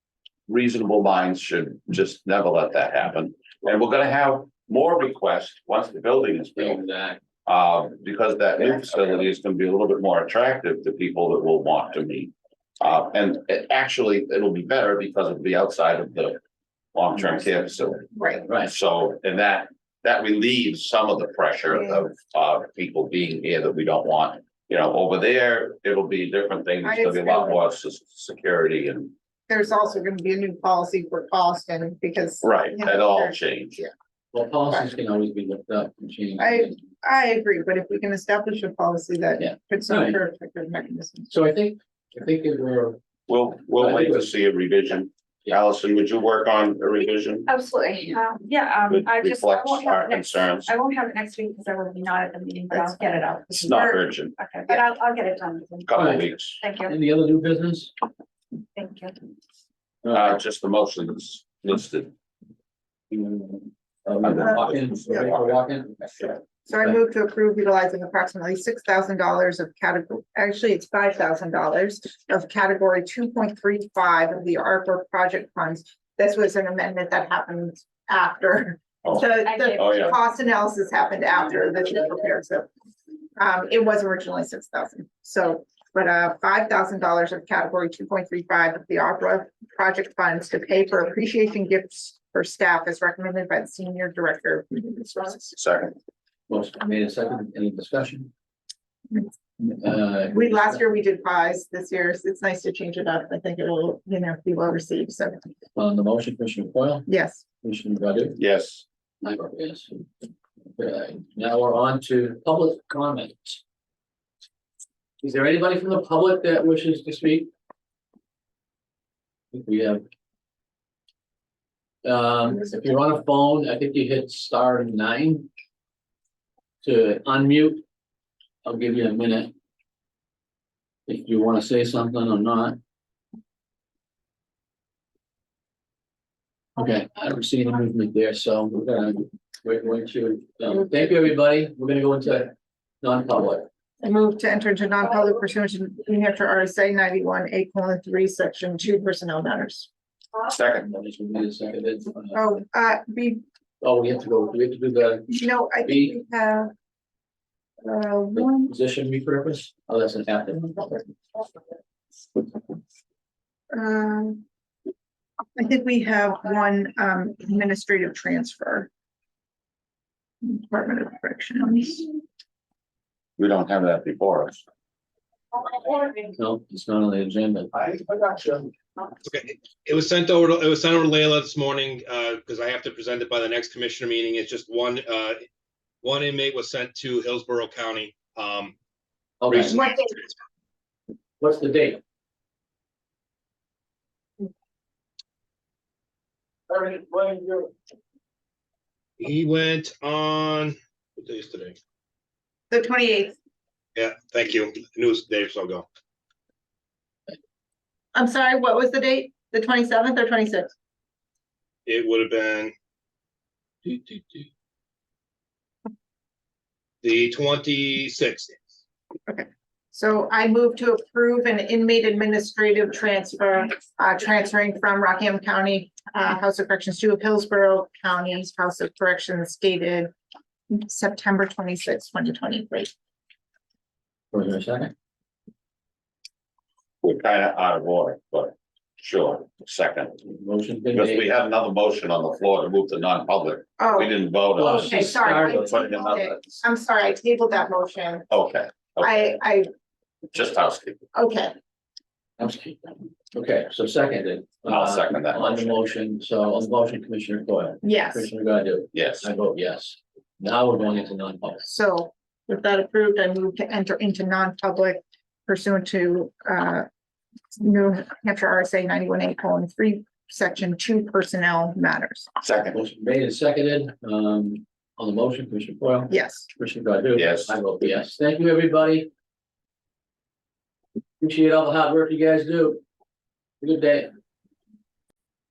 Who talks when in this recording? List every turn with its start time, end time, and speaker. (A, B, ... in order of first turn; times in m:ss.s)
0:00.5-0:06.8 A
0:06.5-0:07.2 B
0:07.4-0:16.4 A
0:16.9-0:29.1 A
0:18.1-0:18.5 C
0:21.7-0:22.0 C
0:26.8-0:27.6 C
0:29.5-0:33.9 C
0:32.4-0:33.8 A
0:34.3-0:36.8 B
0:36.4-0:41.3 C
0:39.4-0:40.2 B
0:41.3-0:43.0 B
0:43.3-0:47.5 A
0:43.7-0:44.3 B
0:47.5-0:56.9 D
0:48.9-0:50.7 A
0:52.7-0:53.3 C
0:53.5-0:54.8 A
0:55.8-0:56.6 A
0:55.9-0:56.3 B
0:56.8-0:57.9 B
0:58.8-0:59.2 D
1:00.0-1:00.3 B
1:00.1-1:02.1 A
1:03.1-1:06.3 B
1:04.2-1:05.5 A
1:06.6-1:22.7 C
1:19.0-1:20.1 A
1:19.4-1:20.2 D
1:23.4-1:35.6 C
1:35.6-1:35.9 A
1:36.5-1:38.3 B
1:39.6-1:40.8 B
1:40.3-1:45.4 C
1:45.8-1:47.1 B
1:47.1-1:47.4 C
1:47.6-1:48.4 B
1:48.4-1:48.8 A
1:49.2-1:50.0 B
1:50.8-1:53.6 B
1:55.2-1:57.5 B
1:59.5-2:00.0 B
2:02.0-2:05.5 B
2:06.8-2:07.8 B
2:08.6-2:09.5 B
2:11.1-2:12.8 B
2:16.8-2:23.7 B
2:24.0-2:29.9 C
2:30.4-2:30.9 A
2:30.8-2:32.4 B
2:32.3-2:33.4 C
2:33.8-2:36.2 B
2:35.3-2:36.7 C
2:37.8-2:38.7 C
2:38.3-2:41.0 B
2:43.7-2:44.4 C
2:45.6-2:48.9 C
2:50.4-2:52.1 C
2:53.4-2:54.6 A
2:56.2-2:57.7 B
2:59.2-3:05.4 E
3:06.0-3:08.7 E
3:09.4-3:09.8 B
3:09.7-3:10.2 C
3:11.4-3:12.0 B
3:16.7-3:17.7 B
3:19.2-3:21.8 E
3:22.7-3:23.4 C
3:24.0-3:25.8 E
3:28.1-3:30.7 C
3:31.8-3:32.7 E
3:33.8-3:34.2 B
3:37.0-3:38.6 E
3:39.3-3:50.1 C
3:50.7-3:52.9 C
3:54.3-3:54.9 B
3:57.0-4:00.2 A
4:00.3-4:01.3 B
4:00.9-4:06.6 A
4:03.8-4:08.3 C
4:04.6-4:05.7 B
4:08.3-4:09.3 A
4:09.0-4:09.7 C
4:10.3-4:11.0 A
4:11.1-4:11.5 C
4:12.4-4:21.6 B
4:14.6-4:15.8 A
4:17.8-4:18.3 C
4:18.9-4:19.3 A
4:21.6-4:26.8 C
4:27.6-4:32.3 C
4:32.4-4:32.8 A
4:32.7-4:39.1 B
4:36.1-4:36.5 C
4:37.1-4:37.5 A
4:41.2-4:42.8 B
4:43.6-4:44.1 B